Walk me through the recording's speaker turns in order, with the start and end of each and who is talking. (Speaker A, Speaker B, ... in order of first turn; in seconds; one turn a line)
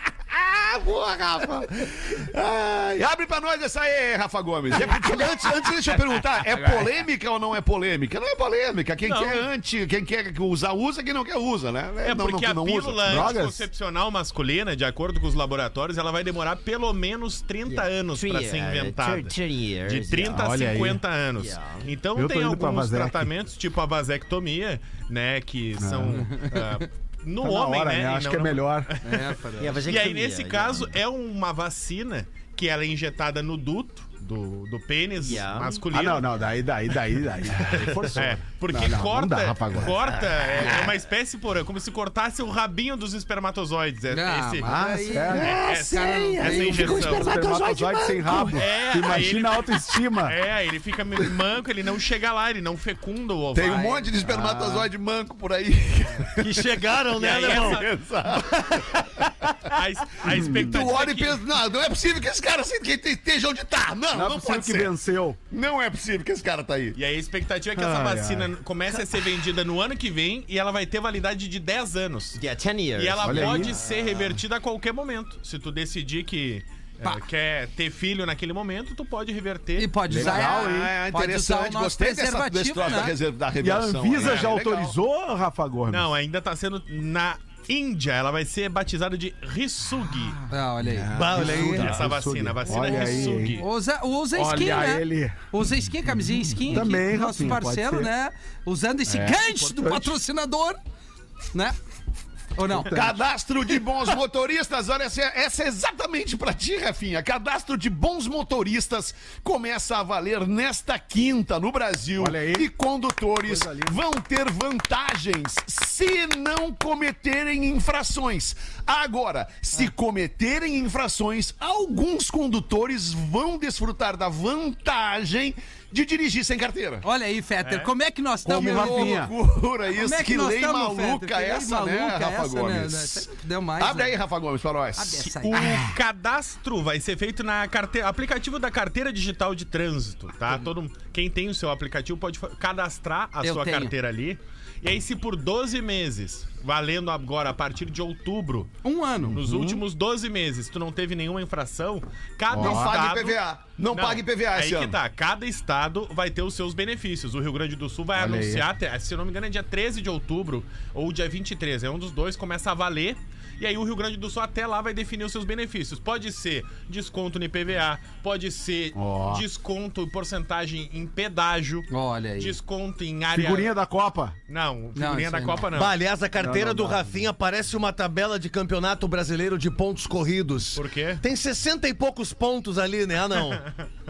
Speaker A: 0.3-13.4
Speaker B: 9.0-9.5
Speaker B: 12.0-36.3
Speaker C: 13.0-13.7
Speaker D: 18.2-20.2
Speaker C: 20.2-21.0
Speaker D: 21.4-21.8
Speaker C: 22.1-23.3
Speaker C: 25.8-26.3
Speaker C: 27.4-28.9
Speaker E: 29.0-29.9
Speaker D: 29.6-30.9
Speaker D: 35.2-35.7
Speaker C: 35.9-40.1
Speaker B: 37.7-44.7
Speaker D: 40.6-40.9
Speaker E: 44.1-45.4
Speaker C: 44.6-45.6
Speaker A: 45.2-48.6
Speaker B: 45.4-47.4
Speaker C: 46.4-50.4
Speaker B: 48.5-53.9
Speaker A: 53.5-56.8
Speaker E: 53.7-54.0
Speaker C: 54.2-54.9
Speaker D: 56.4-57.9
Speaker B: 57.2-57.9
Speaker A: 57.4-59.7
Speaker B: 59.7-61.4
Speaker C: 60.2-60.8
Speaker A: 60.2-64.9
Speaker C: 64.1-65.4
Speaker A: 65.5-67.0
Speaker B: 67.0-79.9
Speaker C: 67.8-68.5
Speaker D: 72.4-73.3
Speaker C: 73.2-73.8
Speaker E: 79.8-83.2
Speaker C: 80.1-81.0
Speaker A: 80.1-84.9
Speaker C: 83.6-86.1
Speaker B: 84.2-84.5
Speaker B: 85.9-90.4
Speaker E: 90.5-91.7
Speaker C: 90.9-93.6
Speaker D: 91.1-92.0
Speaker B: 91.3-93.7
Speaker E: 93.6-100.8
Speaker C: 94.3-95.5
Speaker C: 96.7-98.1
Speaker C: 99.1-100.2
Speaker E: 102.5-103.1
Speaker A: 102.9-127.0
Speaker C: 112.2-112.7
Speaker C: 113.4-114.0
Speaker E: 127.0-129.2
Speaker B: 127.6-127.9
Speaker C: 128.4-129.3
Speaker A: 128.6-135.9
Speaker E: 130.0-134.2
Speaker E: 135.0-135.6
Speaker B: 135.5-148.7
Speaker E: 143.4-143.9
Speaker E: 148.8-149.4
Speaker B: 149.3-153.4
Speaker A: 149.4-149.8
Speaker C: 152.5-153.0
Speaker A: 152.5-155.0
Speaker B: 153.9-173.7
Speaker C: 158.1-158.7
Speaker C: 168.9-169.4
Speaker E: 171.9-172.6
Speaker C: 173.3-174.4
Speaker B: 174.5-176.0
Speaker E: 175.0-175.7
Speaker D: 175.7-183.6
Speaker C: 176.4-177.1
Speaker B: 180.8-181.2